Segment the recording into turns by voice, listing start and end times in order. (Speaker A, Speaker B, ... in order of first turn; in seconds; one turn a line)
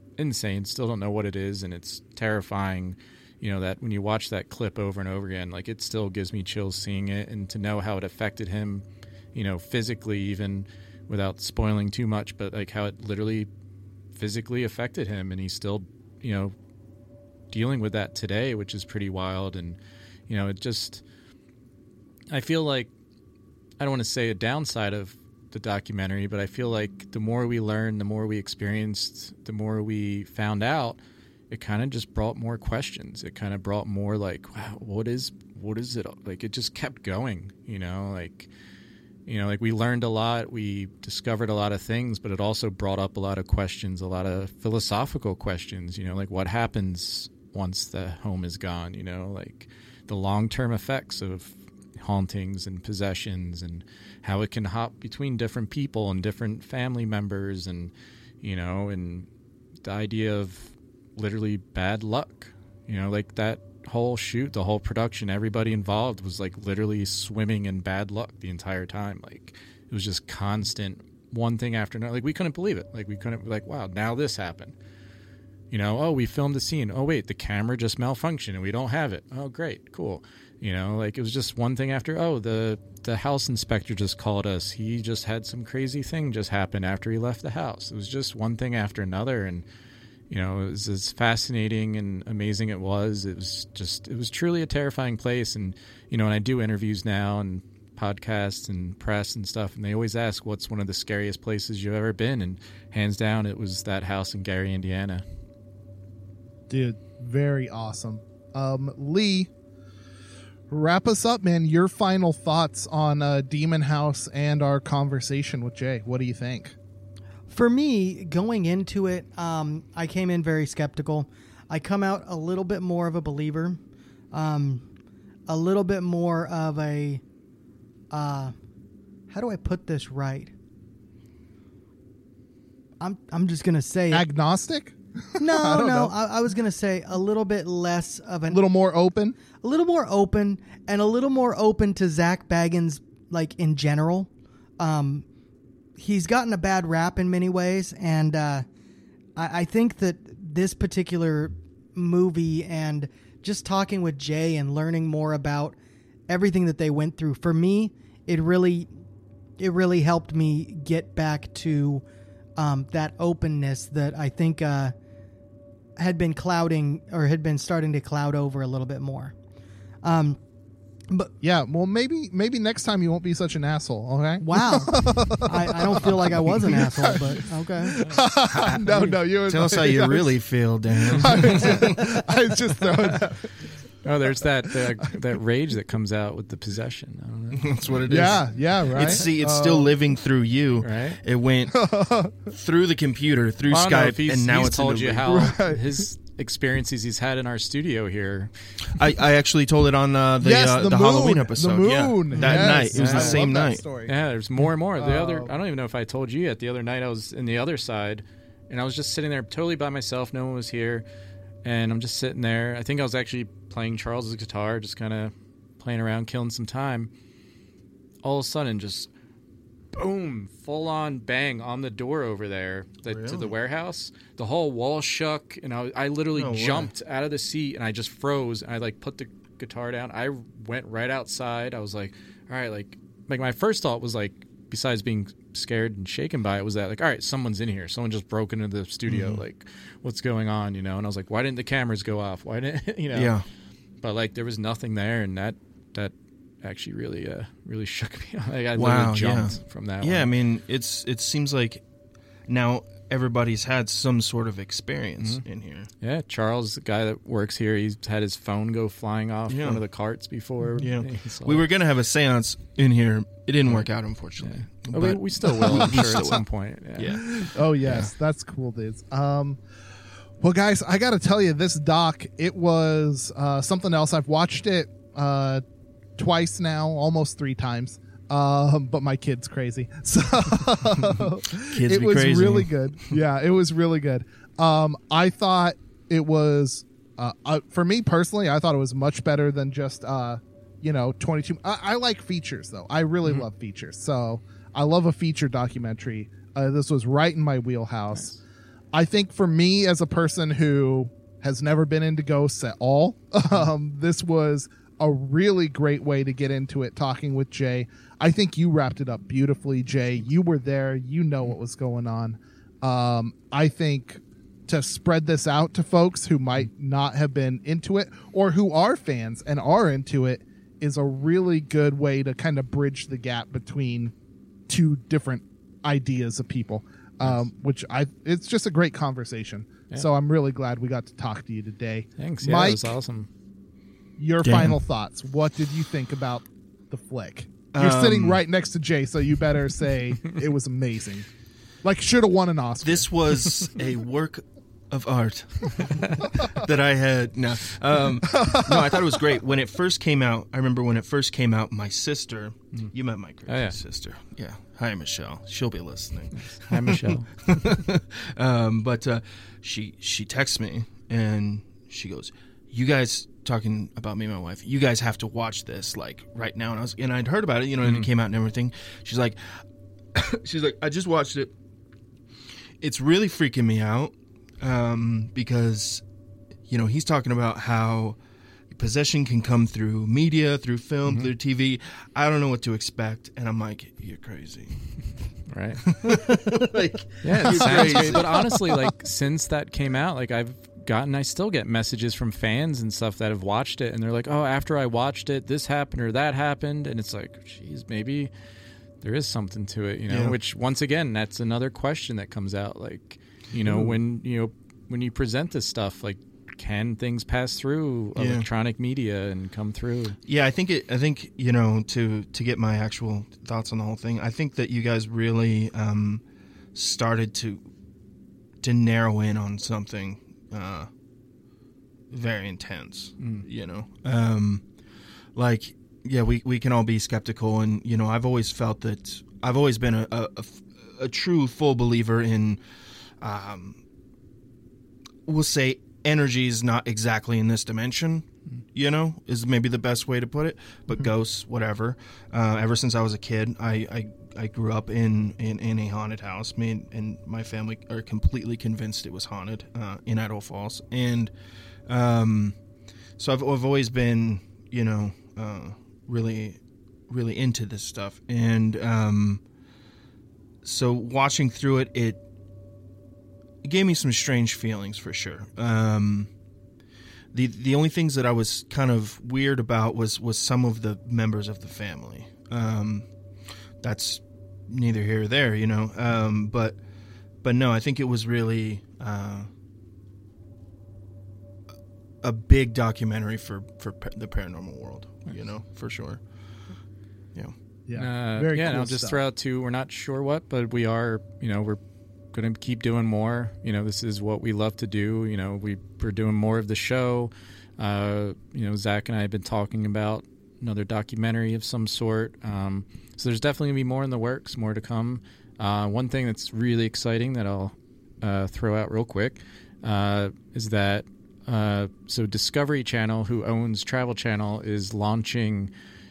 Speaker A: 0.2-13.5
Speaker A: 14.1-16.5
Speaker A: 17.5-21.0
Speaker A: 22.3-22.9
Speaker A: 23.8-31.0
Speaker A: 31.5-38.5
Speaker A: 39.3-59.3
Speaker A: 59.8-74.7
Speaker A: 75.7-89.6
Speaker A: 90.3-105.2
Speaker B: 106.7-109.5
Speaker B: 110.7-116.7
Speaker C: 117.5-123.8
Speaker C: 124.3-124.8
Speaker C: 125.5-127.2
Speaker C: 128.1-128.5
Speaker C: 129.3-130.5
Speaker C: 133.0-134.3
Speaker B: 134.1-136.1
Speaker C: 135.4-138.6
Speaker B: 138.5-139.4
Speaker C: 139.6-145.2
Speaker C: 146.0-148.6
Speaker C: 149.4-155.8
Speaker C: 156.3-158.9
Speaker C: 159.6-162.0
Speaker C: 162.6-164.9
Speaker C: 166.0-169.3
Speaker C: 170.0-170.4
Speaker B: 171.4-180.4
Speaker C: 174.4-177.9
Speaker D: 179.5-182.0
Speaker B: 181.1-183.6
Speaker A: 184.0-187.7
Speaker D: 187.5-191.8
Speaker B: 188.1-189.9
Speaker A: 189.0-189.2
Speaker A: 190.8-191.2
Speaker B: 191.7-192.4
Speaker D: 192.5-195.4
Speaker A: 193.7-198.5
Speaker B: 195.2-196.0
Speaker D: 198.9-203.8
Speaker B: 200.4-204.1
Speaker C: 202.3-202.7
Speaker A: 202.8-203.4
Speaker A: 204.0-211.0
Speaker B: 205.0-205.5
Speaker A: 211.6-217.1
Speaker A: 218.2-219.1
Speaker A: 219.9-243.3
Speaker D: 223.1-223.5
Speaker D: 226.3-226.9
Speaker D: 239.1-239.4
Speaker D: 243.1-243.4
Speaker A: 244.0-250.3
Speaker D: 248.7-251.8
Speaker D: 252.5-255.9
Speaker A: 256.0-261.7
Speaker D: 259.5-259.8
Speaker D: 260.7-266.4
Speaker A: 264.4-267.2
Speaker D: 267.0-268.1
Speaker B: 267.4-269.6
Speaker B: 270.4-275.6
Speaker B: 276.2-298.4
Speaker D: 281.6-283.1
Speaker B: 298.9-324.1
Speaker B: 324.7-332.9
Speaker A: 332.2-333.3
Speaker B: 334.2-341.3
Speaker D: 334.4-334.8
Speaker D: 337.7-338.4
Speaker B: 341.8-343.1
Speaker D: 342.8-369.6
Speaker B: 348.3-349.1
Speaker A: 353.4-353.8
Speaker A: 356.3-357.3
Speaker A: 367.8-368.1
Speaker D: 370.1-371.5
Speaker D: 372.8-376.0
Speaker D: 376.7-378.2
Speaker D: 378.7-384.8
Speaker A: 385.5-385.8
Speaker D: 385.9-388.6
Speaker A: 387.2-398.3
Speaker B: 387.4-388.8
Speaker A: 399.0-410.2
Speaker D: 400.1-400.4
Speaker D: 403.6-404.0
Speaker D: 408.1-408.4
Speaker D: 410.2-416.2
Speaker D: 416.7-417.6
Speaker D: 418.6-420.9
Speaker D: 422.1-424.7
Speaker A: 423.2-423.4
Speaker D: 425.3-432.6
Speaker D: 433.2-433.8
Speaker D: 435.2-451.3
Speaker D: 451.9-452.6
Speaker D: 453.2-459.4
Speaker D: 460.6-462.2
Speaker D: 463.6-466.3
Speaker D: 467.3-473.1
Speaker D: 473.8-476.8
Speaker D: 477.4-479.5
Speaker D: 482.2-486.2
Speaker B: 487.9-489.2
Speaker A: 487.9-491.8
Speaker A: 492.3-515.7